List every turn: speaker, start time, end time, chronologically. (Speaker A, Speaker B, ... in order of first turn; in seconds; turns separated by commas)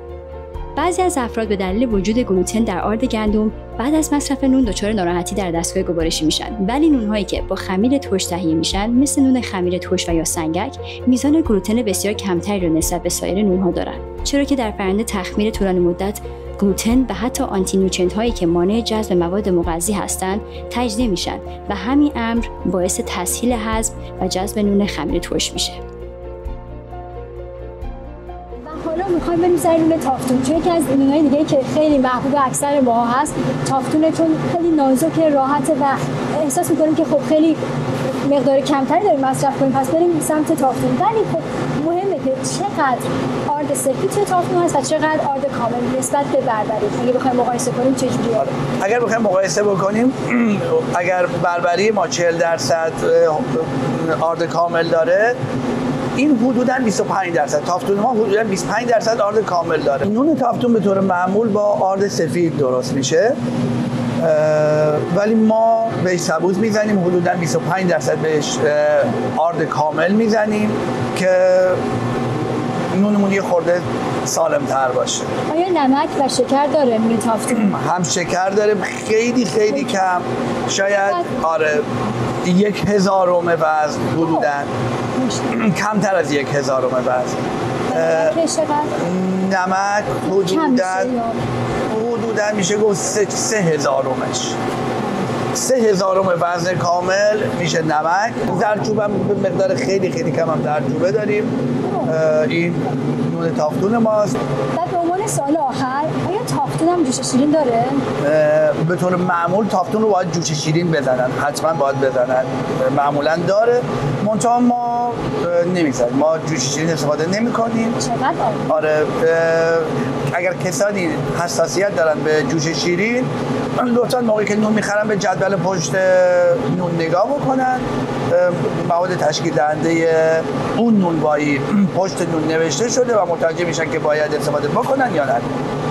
Speaker A: 0.8-25.8, Speaker B: 28.6-48.5, Speaker C: 48.4-55.4, Speaker C: 56.2-63.4, Speaker C: 64.2-71.8, Speaker C: 72.9-75.3, Speaker B: 75.5-77.7, Speaker C: 77.5-81.9, Speaker B: 81.0-81.3, Speaker C: 82.4-84.7, Speaker B: 84.2-84.5, Speaker B: 85.2-85.6, Speaker C: 85.5-88.3, Speaker B: 87.9-88.9, Speaker C: 89.0-91.1, Speaker B: 90.2-91.4, Speaker C: 91.9-94.6, Speaker C: 95.5-101.5, Speaker B: 101.9-102.1, Speaker C: 102.1-104.4, Speaker B: 104.8-108.0, Speaker C: 108.2-118.0, Speaker B: 118.0-118.8, Speaker C: 118.7-135.6